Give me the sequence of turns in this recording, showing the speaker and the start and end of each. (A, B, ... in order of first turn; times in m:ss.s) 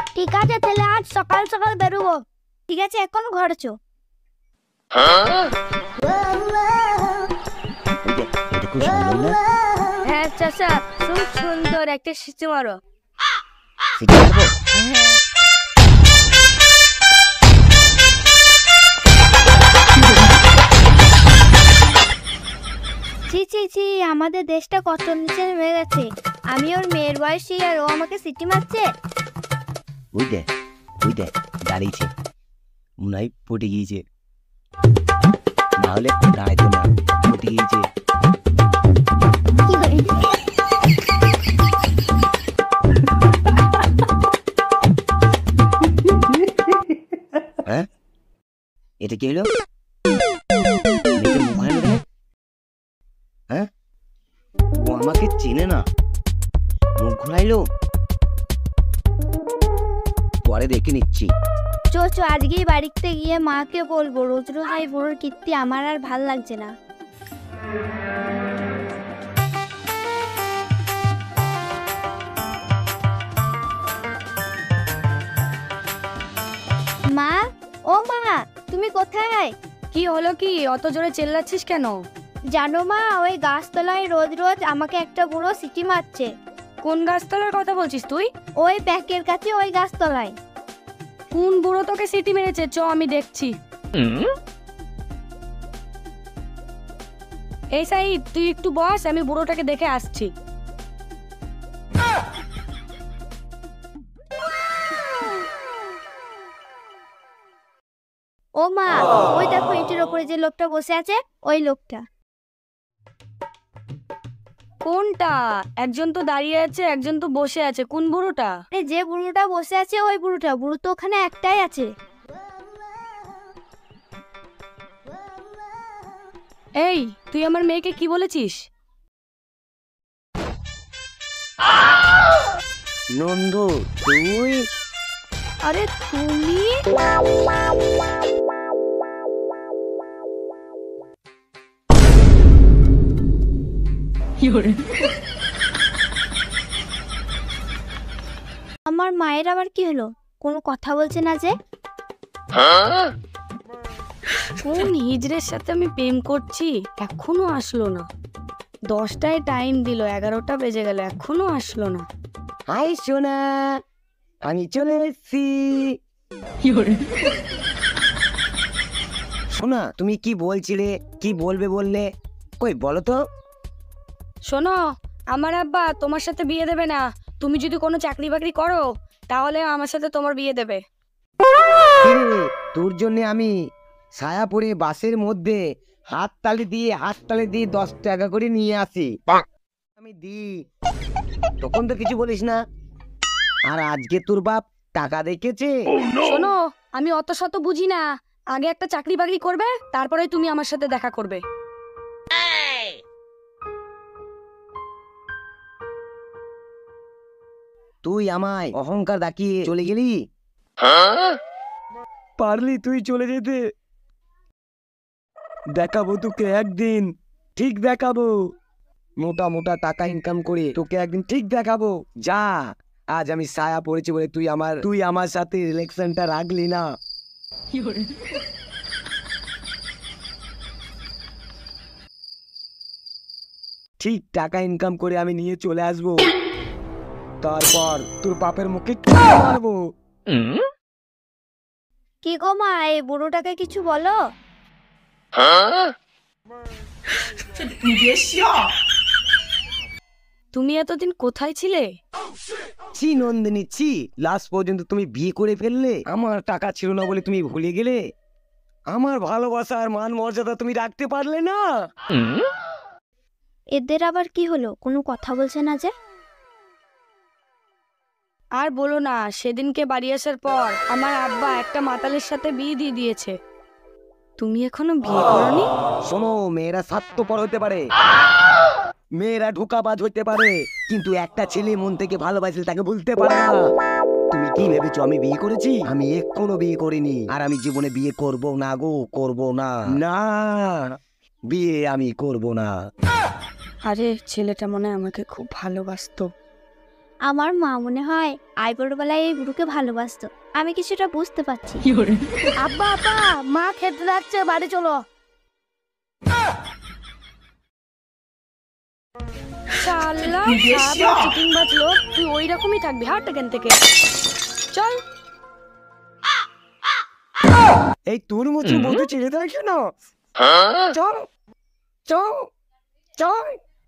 0:00.2-0:02.2 A
0:02.7-0:03.7 B
0:08.0-0:09.4 C
0:10.0-0:12.8 A
0:14.0-0:14.7 C
0:23.3-0:28.8 B
0:30.2-0:30.4 C
0:31.0-0:32.1 C
0:33.0-0:34.0 C
0:35.8-0:37.8 C
0:49.0-0:49.5 C
0:51.2-0:52.0 C
0:54.8-0:55.8 C
0:57.0-0:57.6 C
1:00.5-1:01.3 C
1:01.9-1:06.7 B
1:17.1-1:19.5 B
1:19.9-1:22.0 A
1:22.5-1:26.3 B
1:26.8-1:28.3 A
1:28.6-1:30.4 B
1:31.3-1:33.5 A
1:37.8-1:40.3 A
1:48.6-1:52.0 B
1:54.8-1:58.5 A
1:58.7-2:01.9 B
2:06.8-2:08.7 A
2:13.2-2:14.6 C
2:15.6-2:16.8 A
2:24.4-2:24.8 A
2:28.9-2:31.5 B
2:34.6-2:38.1 A
2:38.9-2:42.1 A
2:42.7-2:43.8 C
2:44.5-2:45.9 C
2:46.7-2:47.1 A
2:49.5-2:52.1 C
2:52.6-2:53.2 C
2:54.5-2:54.8 A
2:55.3-3:00.8 A
3:02.0-3:03.5 C
3:04.2-3:05.6 C
3:06.2-3:09.1 C
3:10.0-3:10.5 C
3:11.6-3:12.6 C
3:13.7-3:15.8 C
3:16.2-3:21.4 A
3:28.0-3:30.2 C
3:32.4-3:33.6 C
3:35.7-3:38.3 C
3:39.2-3:46.8 C
3:54.0-3:56.3 C
3:57.4-3:59.8 C
4:02.2-4:04.2 B
4:10.5-4:11.9 A
4:13.0-4:18.0 C
4:18.9-4:21.6 C
4:23.8-4:25.9 B
4:28.6-4:33.4 A
4:34.4-4:35.7 A
4:36.1-4:37.8 C
4:39.2-4:43.6 C
4:44.3-4:50.8 C
4:51.5-4:52.7 C
4:53.9-4:56.3 A
4:57.3-5:01.8 B
5:01.9-5:05.0 A
5:09.8-5:13.8 A
5:14.7-5:15.0 A
5:18.1-5:19.8 C
5:20.9-5:21.2 C
5:22.1-5:22.4 C
5:23.2-5:23.6 C